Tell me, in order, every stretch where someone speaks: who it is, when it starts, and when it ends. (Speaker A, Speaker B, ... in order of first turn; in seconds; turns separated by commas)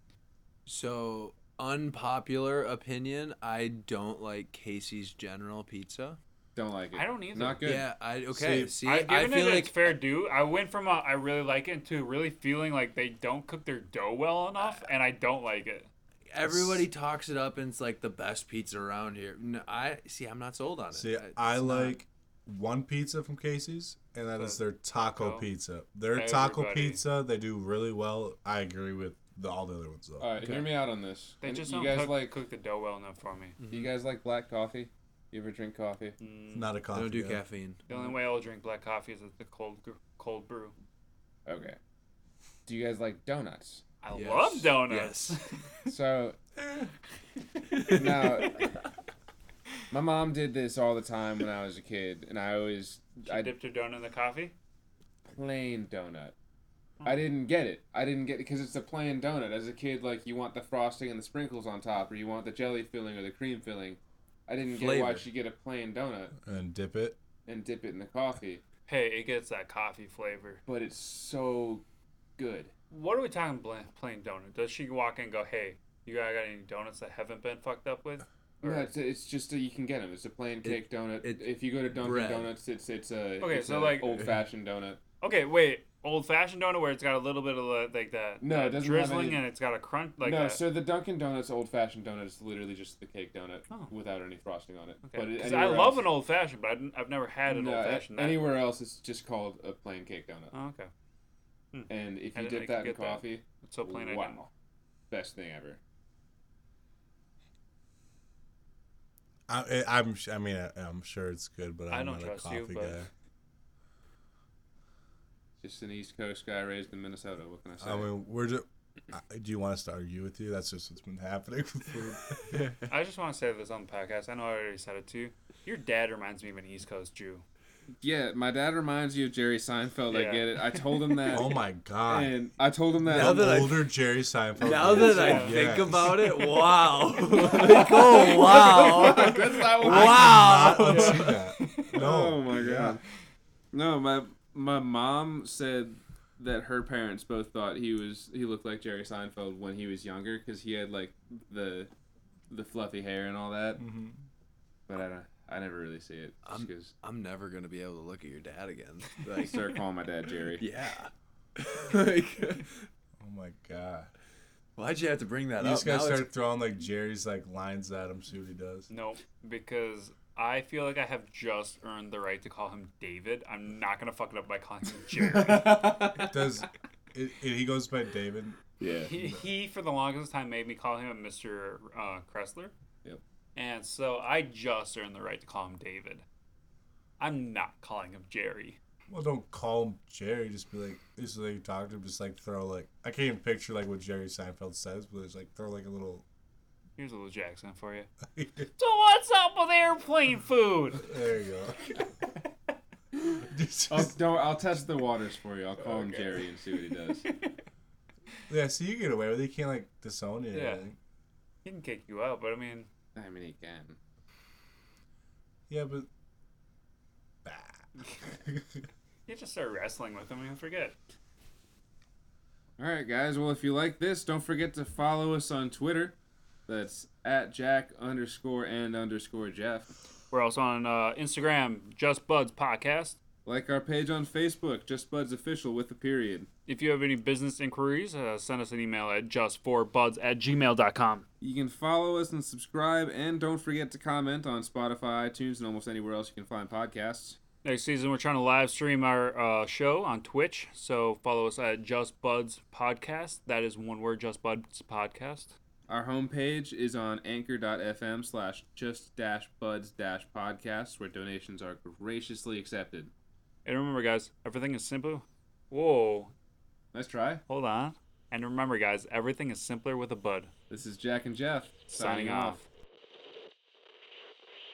Speaker A: 0.7-6.2, Speaker B: 6.5-7.9, Speaker C: 6.9-7.7, Speaker A: 7.6-9.9, Speaker D: 8.3-8.7, Speaker C: 8.8-15.9, Speaker A: 16.3-21.9, Speaker D: 16.4-16.9, Speaker D: 20.9-30.3, Speaker C: 24.4-25.4, Speaker C: 26.1-27.0, Speaker B: 30.2-32.4, Speaker C: 31.4-33.6, Speaker A: 33.6-33.9, Speaker B: 33.7-36.1, Speaker C: 36.2-36.7, Speaker D: 36.5-37.4, Speaker A: 36.9-37.8, Speaker C: 37.9-40.7, Speaker B: 37.9-38.1, Speaker B: 41.5-41.8, Speaker B: 42.6-43.8, Speaker C: 44.0-45.5, Speaker A: 44.1-45.4, Speaker B: 45.9-46.4, Speaker C: 47.9-48.2, Speaker B: 47.9-48.6, Speaker B: 49.9-53.5, Speaker C: 53.2-54.5, Speaker B: 55.3-56.3, Speaker B: 57.0-66.3, Speaker A: 64.7-65.2, Speaker D: 66.4-67.2, Speaker B: 67.5-68.6, Speaker C: 68.9-70.6, Speaker B: 70.7-71.8, Speaker B: 72.4-72.7, Speaker C: 72.9-78.9, Speaker B: 78.6-85.0, Speaker A: 80.6-82.5, Speaker C: 83.4-84.2, Speaker C: 85.2-90.6, Speaker B: 88.4-89.4, Speaker B: 90.2-96.1, Speaker C: 95.1-98.5, Speaker B: 97.5-100.5, Speaker C: 100.5-100.9, Speaker C: 101.7-104.4, Speaker B: 101.9-104.5, Speaker B: 105.1-105.8, Speaker D: 109.5-113.1, Speaker C: 111.9-113.1, Speaker B: 115.6-118.1, Speaker D: 117.8-122.6, Speaker A: 122.5-122.9, Speaker C: 122.8-127.4, Speaker B: 128.0-133.5, Speaker C: 130.1-130.5, Speaker D: 131.3-132.3, Speaker D: 133.0-136.4, Speaker A: 133.1-133.9, Speaker A: 134.6-141.4, Speaker C: 134.9-135.6, Speaker B: 137.3-140.6, Speaker C: 137.6-139.3, Speaker D: 139.8-143.0, Speaker C: 140.8-141.9, Speaker B: 141.9-143.0, Speaker B: 143.7-151.9, Speaker B: 152.5-153.8, Speaker D: 153.8-154.2, Speaker B: 154.9-156.9, Speaker A: 156.4-159.7, Speaker B: 159.4-160.6, Speaker A: 160.6-162.9, Speaker D: 163.2-164.1, Speaker A: 164.8-166.3, Speaker D: 165.6-168.9, Speaker C: 168.9-176.0, Speaker A: 175.4-176.3, Speaker B: 175.7-176.2, Speaker D: 176.2-178.6, Speaker B: 178.8-179.1, Speaker C: 179.1-182.7, Speaker D: 179.1-179.4, Speaker C: 183.5-186.2, Speaker C: 187.2-188.8, Speaker D: 189.1-196.2, Speaker C: 197.0-198.1, Speaker D: 198.3-198.7, Speaker C: 198.8-201.1, Speaker D: 200.9-201.8, Speaker C: 202.0-202.3, Speaker D: 203.3-204.1, Speaker B: 203.9-207.2, Speaker C: 207.2-207.6, Speaker D: 208.5-210.9, Speaker C: 210.5-210.8, Speaker C: 211.6-212.9, Speaker B: 213.1-214.0, Speaker D: 215.7-216.1, Speaker D: 217.4-218.8, Speaker C: 219.3-221.0, Speaker B: 222.8-226.2, Speaker B: 226.7-229.9, Speaker C: 230.3-233.2, Speaker B: 233.4-236.5, Speaker C: 236.7-241.2, Speaker B: 241.4-247.4, Speaker C: 247.6-255.5, Speaker B: 255.9-263.1, Speaker C: 263.6-266.3, Speaker B: 266.9-267.4, Speaker C: 267.5-270.5, Speaker B: 270.7-272.6, Speaker C: 271.9-272.6